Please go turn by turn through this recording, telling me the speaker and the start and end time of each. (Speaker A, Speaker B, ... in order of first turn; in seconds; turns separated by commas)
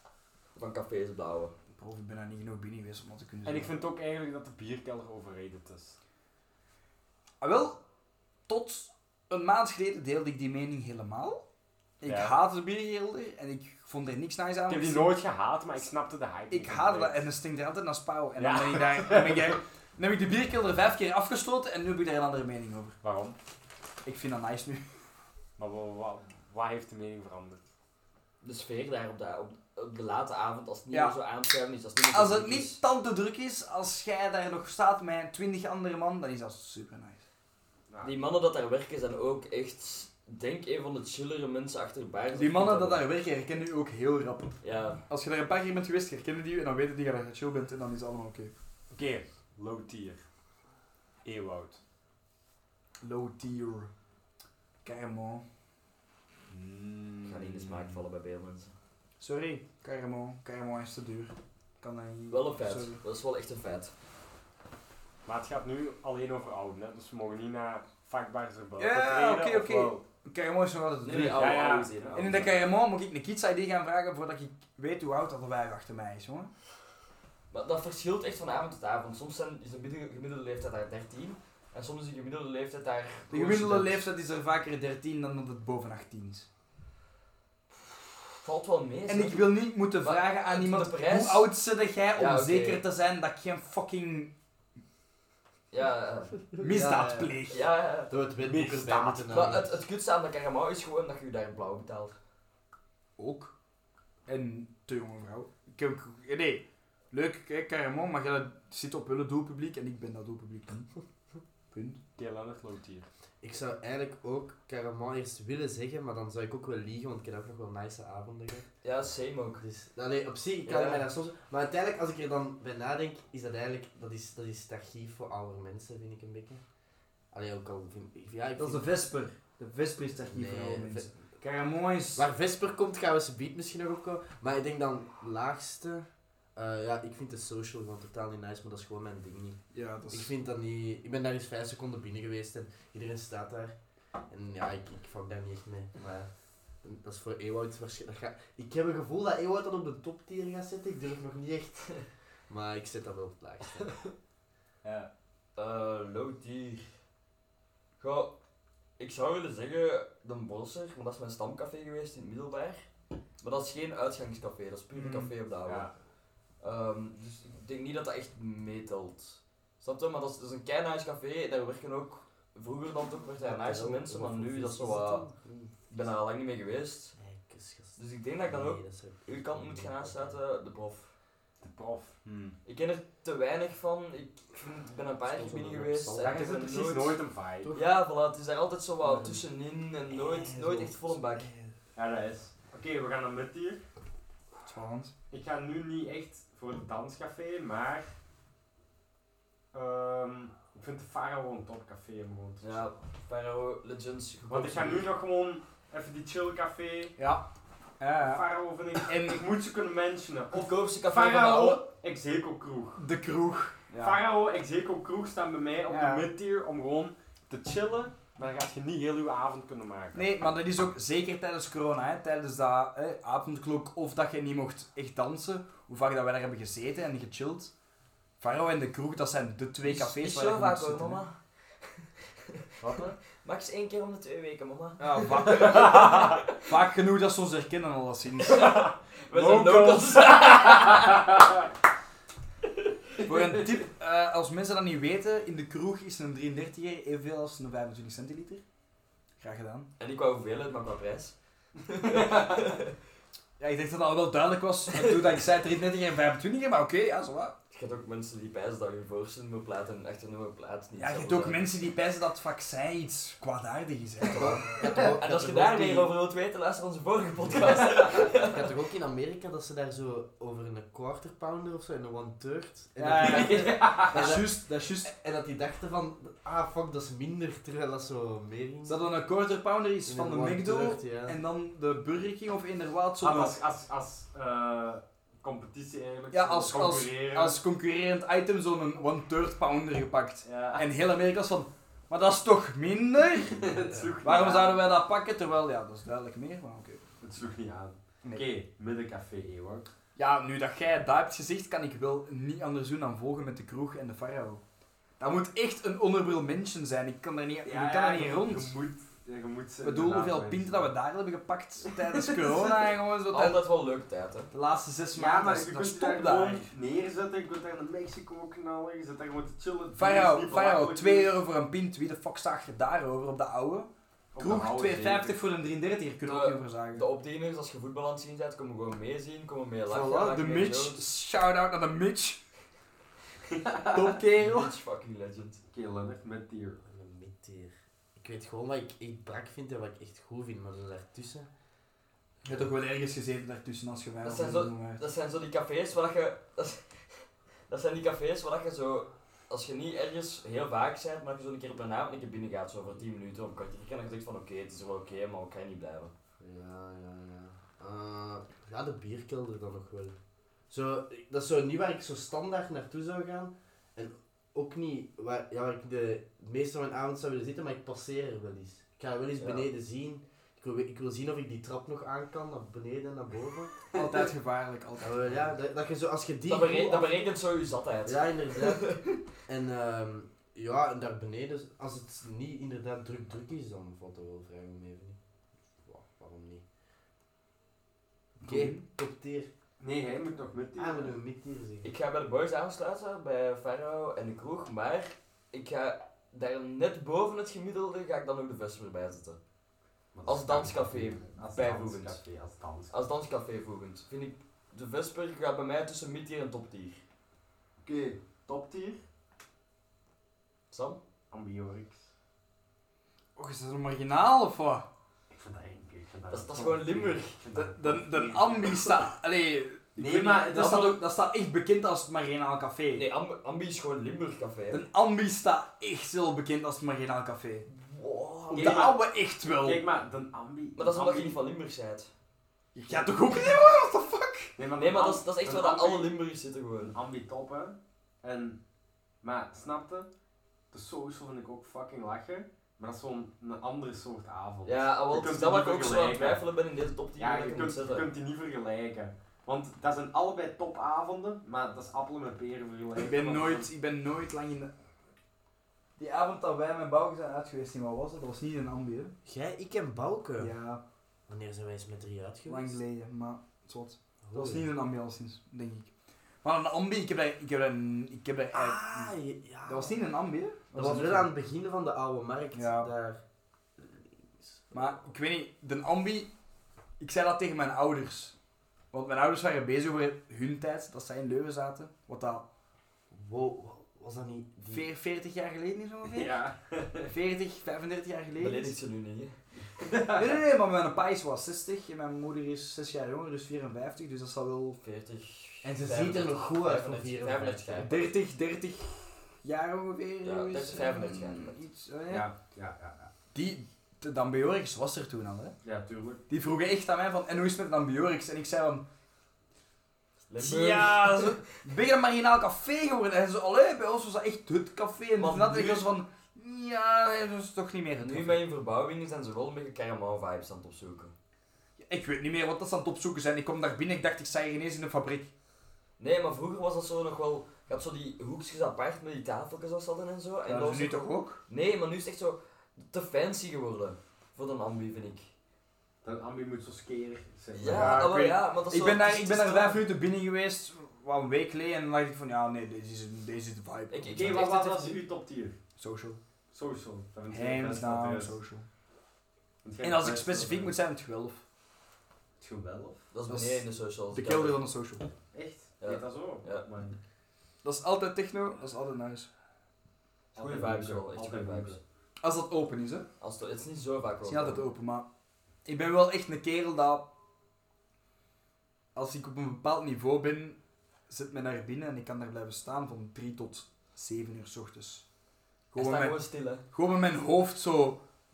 Speaker A: 0.5-1.5, Speaker B: 1.8-3.7, Speaker C: 3.4-6.0, Speaker B: 7.4-7.8, Speaker B: 8.5-11.4, Speaker B: 12.0-15.1, Speaker C: 12.0-12.3, Speaker C: 14.7-17.2, Speaker B: 16.5-22.9, Speaker C: 18.4-19.6, Speaker C: 23.0-23.4, Speaker B: 24.0-24.8, Speaker C: 25.6-27.6, Speaker A: 28.4-32.8, Speaker B: 32.1-37.2, Speaker A: 38.0-43.0, Speaker B: 42.4-44.6, Speaker A: 44.6-45.0, Speaker B: 45.1-48.5, Speaker C: 48.9-50.2, Speaker C: 51.2-51.8, Speaker B: 53.0-53.9, Speaker B: 54.8-55.4, Speaker C: 56.5-58.0, Speaker A: 57.2-58.7, Speaker B: 59.2-63.0, Speaker A: 62.3-63.9, Speaker C: 65.2-70.0, Speaker B: 68.8-76.5, Speaker A: 71.0-72.4, Speaker C: 71.2-72.6, Speaker A: 77.5-84.0, Speaker B: 83.3-86.5, Speaker A: 88.4-89.4, Speaker B: 89.1-94.3, Speaker A: 90.0-91.5, Speaker A: 92.1-92.8, Speaker A: 95.7-96.3, Speaker D: 96.6-97.4, Speaker B: 96.6-97.6, Speaker A: 97.5-98.1, Speaker D: 98.1-99.7, Speaker C: 98.4-99.5, Speaker A: 99.3-102.2, Speaker B: 103.2-103.5, Speaker B: 104.3-110.9, Speaker B: 111.7-112.0, Speaker C: 112.2-113.1, Speaker D: 113.4-118.7, Speaker A: 118.8-119.6, Speaker D: 119.5-126.6, Speaker A: 120.7-121.0, Speaker D: 127.3-128.9, Speaker B: 128.6-132.2, Speaker D: 130.3-131.1, Speaker D: 132.2-139.6, Speaker B: 139.7-140.3, Speaker D: 140.1-143.7, Speaker D: 144.3-146.3, Speaker D: 146.8-154.0, Speaker C: 154.8-155.1, Speaker A: 155.6-156.8, Speaker A: 158.0-158.3, Speaker A: 159.0-162.9, Speaker A: 163.4-165.9, Speaker B: 164.9-165.3, Speaker C: 165.7-165.9, Speaker A: 166.6-175.2, Speaker D: 173.4-175.7, Speaker A: 175.9-177.1, Speaker D: 177.2-180.4, Speaker A: 177.9-181.1, Speaker C: 181.6-182.6, Speaker A: 182.6-187.2, Speaker D: 185.3-186.3, Speaker C: 186.1-187.7, Speaker A: 187.7-191.5, Speaker B: 189.0-189.4, Speaker D: 190.4-190.9, Speaker B: 190.5-191.7, Speaker C: 191.9-193.8, Speaker B: 194.6-195.1, Speaker C: 195.3-198.1, Speaker C: 199.7-202.9, Speaker A: 202.6-205.1, Speaker C: 204.5-207.2, Speaker B: 207.2-207.5, Speaker B: 208.0-208.4, Speaker C: 208.2-213.0, Speaker B: 209.0-209.4, Speaker A: 210.5-211.8, Speaker B: 213.0-214.2, Speaker C: 213.9-220.3, Speaker B: 215.9-216.3, Speaker B: 220.1-227.7, Speaker B: 228.4-231.2, Speaker A: 229.8-231.4, Speaker C: 232.8-233.2, Speaker A: 233.0-236.3, Speaker B: 235.0-238.8, Speaker C: 235.6-236.3, Speaker A: 238.5-241.3, Speaker C: 238.8-241.2, Speaker A: 242.7-242.9, Speaker B: 243.2-248.6, Speaker B: 249.4-249.9, Speaker A: 250.0-252.9, Speaker C: 252.1-252.5, Speaker B: 253.6-257.6, Speaker A: 254.9-255.4, Speaker A: 257.7-261.6, Speaker B: 261.0-264.7, Speaker A: 264.2-268.7, Speaker D: 264.3-266.1, Speaker D: 267.6-279.0, Speaker B: 273.0-275.1, Speaker C: 273.2-274.4, Speaker B: 278.9-283.6, Speaker D: 280.0-281.4, Speaker C: 283.2-287.6, Speaker B: 286.3-293.7, Speaker C: 290.4-290.9, Speaker C: 293.5-294.8, Speaker D: 293.8-294.1, Speaker B: 294.2-297.0, Speaker C: 297.2-299.9, Speaker B: 300.1-304.6, Speaker B: 305.2-308.8, Speaker C: 307.6-310.9, Speaker B: 309.8-313.6, Speaker C: 311.8-312.7, Speaker A: 313.3-314.5, Speaker B: 314.5-316.7, Speaker C: 315.1-321.4, Speaker B: 319.9-327.1, Speaker C: 324.3-325.3, Speaker A: 326.2-331.0, Speaker B: 329.9-332.4, Speaker C: 333.5-334.0, Speaker B: 333.9-334.7, Speaker A: 334.4-335.6, Speaker C: 335.7-336.8, Speaker D: 336.8-341.5, Speaker B: 342.4-345.0, Speaker A: 344.2-356.1, Speaker D: 356.4-360.1, Speaker D: 360.7-373.9, Speaker A: 369.4-369.7, Speaker B: 373.9-375.5, Speaker D: 375.0-377.2, Speaker A: 376.4-379.2, Speaker D: 378.1-385.2, Speaker D: 385.8-386.6, Speaker D: 388.4-389.5, Speaker B: 388.4-388.8, Speaker C: 389.8-391.1, Speaker D: 390.8-391.9, Speaker A: 391.8-399.4, Speaker C: 400.1-402.9, Speaker A: 400.2-402.2, Speaker A: 402.9-407.0, Speaker C: 407.8-409.0, Speaker A: 410.7-411.0, Speaker C: 411.3-412.1, Speaker B: 413.4-414.9, Speaker C: 415.3-418.9, Speaker A: 416.3-417.4, Speaker B: 417.5-423.0, Speaker C: 419.9-421.0, Speaker A: 422.9-424.8, Speaker B: 424.7-427.7, Speaker A: 427.7-428.9, Speaker C: 428.5-431.4, Speaker B: 428.5-429.8, Speaker A: 430.8-432.1, Speaker B: 432.7-434.5, Speaker C: 434.6-436.1, Speaker A: 434.8-436.9, Speaker C: 436.8-438.6, Speaker C: 439.2-440.1, Speaker C: 440.7-446.4, Speaker A: 444.6-448.1, Speaker C: 447.2-453.7, Speaker B: 452.9-454.7, Speaker B: 456.0-459.1, Speaker D: 459.2-460.5, Speaker B: 460.4-460.8, Speaker D: 461.3-462.8, Speaker B: 462.5-465.9, Speaker D: 464.2-464.7, Speaker B: 466.4-469.1, Speaker D: 468.5-469.9, Speaker B: 469.6-471.3, Speaker D: 470.7-473.2, Speaker B: 472.5-472.9, Speaker D: 473.8-474.6, Speaker B: 474.7-476.3, Speaker B: 477.0-478.3, Speaker B: 478.9-482.4, Speaker D: 483.1-484.8, Speaker B: 484.7-486.4, Speaker C: 486.1-487.1, Speaker B: 487.1-488.8, Speaker A: 488.4-489.4, Speaker C: 489.8-490.3, Speaker B: 490.1-494.8, Speaker A: 494.8-498.0, Speaker D: 495.6-498.0, Speaker B: 497.8-502.3, Speaker A: 500.2-501.6, Speaker C: 502.1-503.1, Speaker B: 503.3-505.5, Speaker C: 505.6-506.2, Speaker B: 506.3-508.8, Speaker A: 510.3-511.5, Speaker B: 510.4-518.4, Speaker A: 515.1-515.9, Speaker A: 518.0-521.1, Speaker B: 521.8-525.3, Speaker A: 526.0-535.3, Speaker B: 530.5-531.4, Speaker C: 536.0-538.1, Speaker A: 537.5-539.8, Speaker B: 537.7-544.9, Speaker A: 543.9-544.9, Speaker C: 544.1-545.5, Speaker B: 545.8-546.2, Speaker C: 546.5-548.3, Speaker B: 547.3-548.7, Speaker C: 549.6-550.7, Speaker B: 549.8-551.4, Speaker C: 552.4-553.0, Speaker A: 553.1-554.6, Speaker B: 553.3-555.1, Speaker C: 555.3-557.0, Speaker A: 555.8-556.7, Speaker B: 557.6-559.3, Speaker C: 560.3-561.8, Speaker A: 560.4-561.8, Speaker B: 562.2-563.1, Speaker A: 563.2-564.6, Speaker B: 564.2-565.1, Speaker B: 565.6-567.1, Speaker B: 568.9-575.0, Speaker B: 575.7-578.0, Speaker A: 575.7-576.6